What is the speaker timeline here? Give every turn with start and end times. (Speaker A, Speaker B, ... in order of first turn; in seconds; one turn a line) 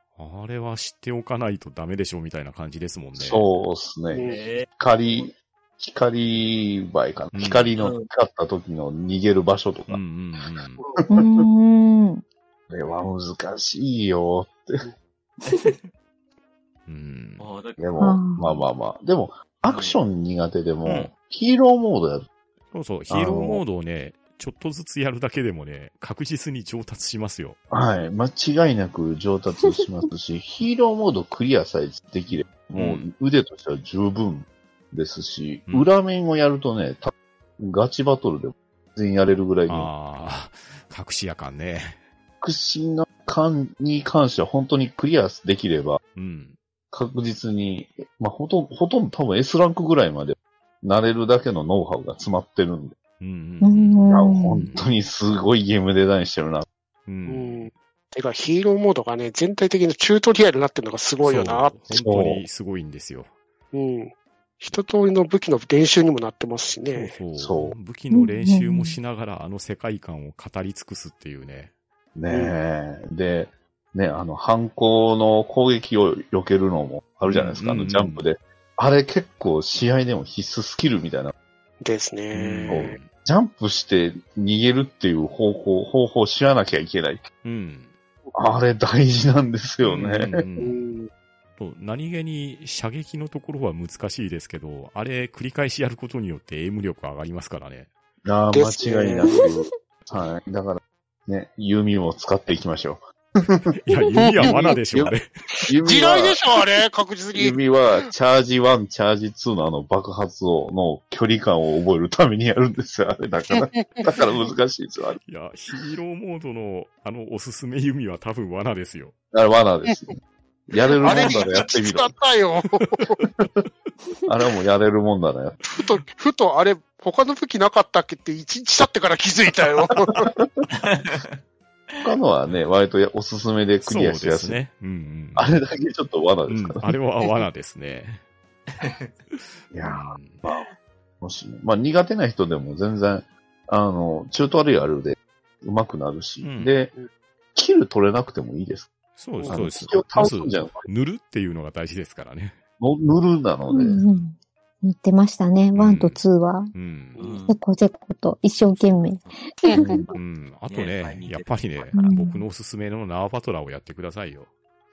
Speaker A: 0.1-3.4
Speaker B: 3.1-10.0
Speaker C: 4.1-4.4
Speaker D: 4.2-4.7
Speaker A: 7.3-7.8
Speaker D: 7.8-8.1
Speaker A: 9.9-10.8
Speaker E: 11.0-12.2
Speaker B: 11.1-11.4
Speaker B: 12.7-14.9
Speaker D: 15.4-15.9
Speaker A: 16.9-17.5
Speaker D: 17.4-17.8
Speaker B: 17.8-22.3
Speaker E: 18.0-18.6
Speaker D: 19.6-20.0
Speaker A: 20.8-21.1
Speaker A: 22.7-27.6
Speaker B: 23.1-23.6
Speaker B: 27.7-39.9
Speaker A: 32.7-33.1
Speaker A: 39.7-42.0
Speaker B: 42.4-46.0
Speaker A: 46.1-46.5
Speaker B: 46.9-53.0
Speaker A: 53.2-54.8
Speaker E: 53.6-54.6
Speaker B: 54.1-56.6
Speaker A: 57.1-57.7
Speaker C: 57.3-61.8
Speaker A: 61.2-63.3
Speaker B: 61.9-62.4
Speaker C: 63.7-67.1
Speaker A: 66.9-71.7
Speaker B: 67.3-67.8
Speaker E: 68.1-69.0
Speaker B: 72.1-81.3
Speaker A: 77.2-78.2
Speaker C: 81.8-82.9
Speaker A: 82.3-83.1
Speaker B: 82.7-87.2
Speaker A: 87.4-87.9
Speaker B: 88.3-90.4
Speaker A: 89.8-90.9
Speaker C: 90.6-91.1
Speaker A: 91.6-97.9
Speaker B: 98.2-103.7
Speaker C: 98.5-99.5
Speaker E: 99.3-99.6
Speaker A: 103.7-105.3
Speaker C: 104.2-104.8
Speaker B: 104.4-105.1
Speaker B: 105.7-106.4
Speaker C: 105.8-107.6
Speaker B: 107.3-115.2
Speaker A: 115.2-119.1
Speaker B: 119.3-122.1
Speaker C: 121.0-123.2
Speaker B: 124.3-125.6
Speaker C: 125.7-130.2
Speaker D: 130.7-131.4
Speaker B: 132.0-134.6
Speaker A: 133.8-135.5
Speaker B: 135.3-136.9
Speaker A: 136.5-138.2
Speaker D: 138.7-139.2
Speaker A: 139.3-140.4
Speaker B: 139.7-140.7
Speaker B: 141.2-146.9
Speaker A: 146.4-146.7
Speaker B: 147.5-148.9
Speaker A: 149.2-152.6
Speaker B: 149.4-150.8
Speaker B: 152.8-154.0
Speaker E: 153.7-156.7
Speaker D: 153.9-154.2
Speaker A: 155.7-156.2
Speaker A: 156.7-157.2
Speaker C: 157.2-157.4
Speaker D: 157.2-157.6
Speaker E: 157.5-160.1
Speaker D: 158.8-159.4
Speaker B: 159.7-160.1
Speaker A: 160.1-164.5
Speaker D: 160.7-162.0
Speaker E: 161.9-162.4